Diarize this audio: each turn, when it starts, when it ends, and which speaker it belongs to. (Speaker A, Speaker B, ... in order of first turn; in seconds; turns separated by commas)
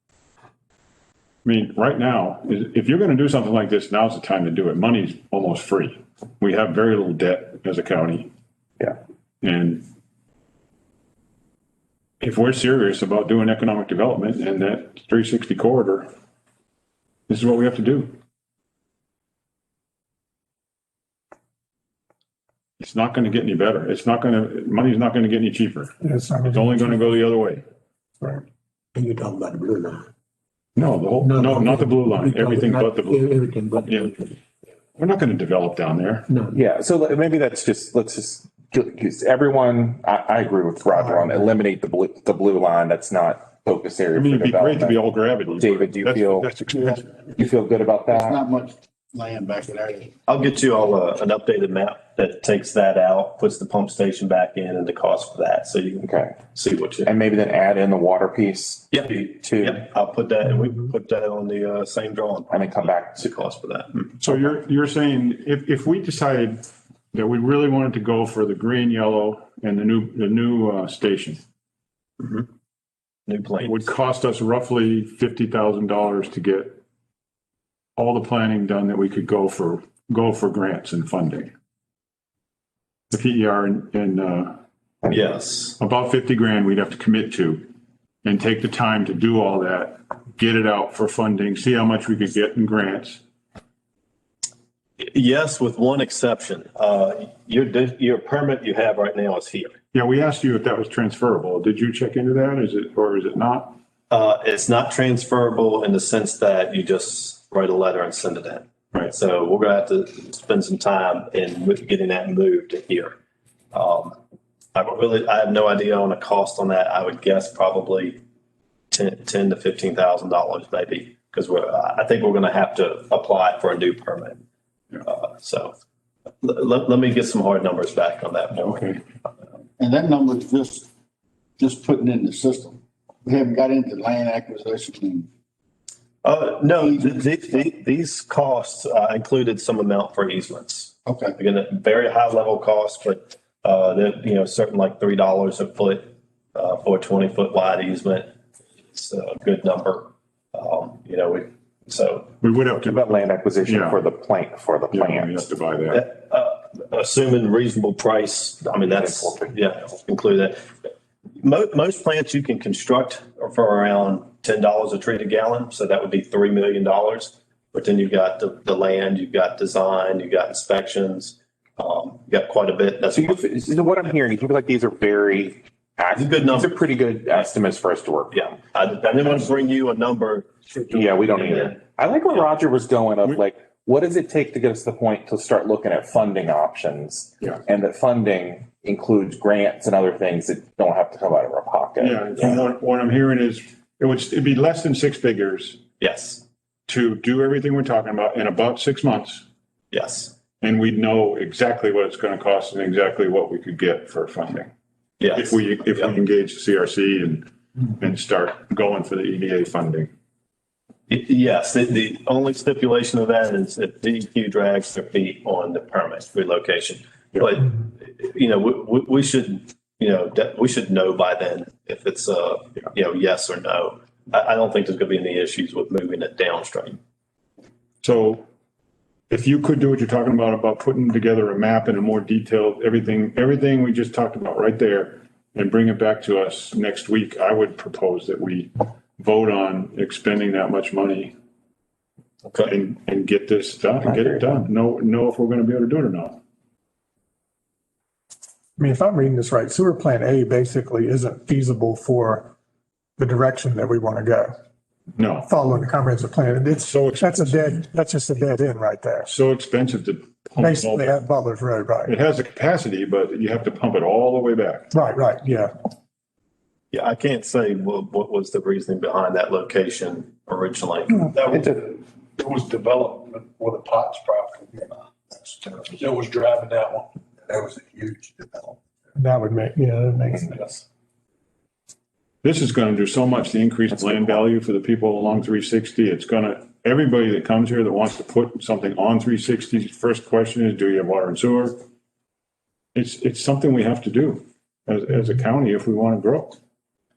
Speaker A: 1.4-8.3, Speaker A: 9.4-9.8, Speaker A: 12.2-16.1, Speaker A: 17.3-18.1, Speaker A: 22.8-27.6, Speaker B: 26.0-27.1, Speaker C: 28.9-30.1, Speaker A: 30.8-33.3, Speaker C: 31.2-34.3, Speaker A: 33.8-34.2, Speaker A: 35.0-36.3, Speaker C: 36.3-36.6, Speaker D: 36.5-45.0, Speaker A: 44.1-47.1, Speaker D: 45.6-46.5, Speaker E: 46.6-47.0, Speaker D: 47.4-48.4, Speaker E: 48.1-50.1, Speaker F: 50.3-57.1, Speaker D: 56.0-56.4, Speaker D: 57.0-59.8, Speaker F: 58.9-64.3, Speaker D: 62.5-63.3, Speaker A: 64.2-71.4, Speaker F: 72.2-72.5, Speaker F: 73.3-73.9, Speaker A: 73.6-76.8, Speaker A: 78.0-81.5, Speaker A: 83.1-84.6, Speaker F: 85.1-85.8, Speaker A: 85.8-87.7, Speaker A: 88.2-93.2, Speaker F: 95.0-99.8, Speaker A: 99.9-103.8, Speaker F: 104.1-113.2, Speaker F: 113.7-114.2, Speaker F: 114.7-118.2, Speaker F: 118.9-124.4, Speaker F: 125.0-125.7, Speaker F: 126.4-129.0, Speaker A: 128.6-129.0, Speaker E: 129.8-130.9, Speaker E: 131.6-135.3, Speaker F: 136.2-148.3, Speaker E: 136.8-137.3, Speaker E: 141.1-141.3, Speaker F: 148.9-152.3, Speaker A: 152.4-154.0, Speaker D: 152.8-155.4, Speaker A: 154.9-156.0, Speaker F: 155.9-160.7, Speaker D: 158.8-159.6, Speaker F: 161.4-173.5, Speaker D: 173.1-178.5, Speaker F: 176.1-176.8, Speaker F: 178.3-181.8, Speaker D: 180.9-192.6, Speaker A: 192.0-195.8, Speaker F: 196.0-196.4, Speaker A: 196.9-199.4, Speaker F: 199.9-200.3, Speaker A: 200.6-204.7, Speaker F: 205.2-206.1, Speaker A: 205.3-210.1, Speaker F: 211.1-227.0, Speaker A: 228.0-228.4, Speaker A: 229.3-241.3, Speaker F: 242.4-242.7, Speaker A: 242.7-246.4, Speaker D: 244.0-244.5, Speaker B: 248.8-252.5, Speaker B: 253.2-254.5, Speaker A: 255.1-255.5, Speaker B: 255.4-259.3, Speaker A: 256.8-257.7, Speaker A: 259.3-261.2, Speaker B: 260.6-262.1, Speaker A: 262.1-264.9, Speaker B: 264.9-265.7, Speaker F: 266.9-271.7, Speaker G: 271.8-274.6, Speaker G: 275.8-277.0, Speaker B: 279.1-280.8, Speaker A: 282.4-291.8, Speaker A: 292.9-296.6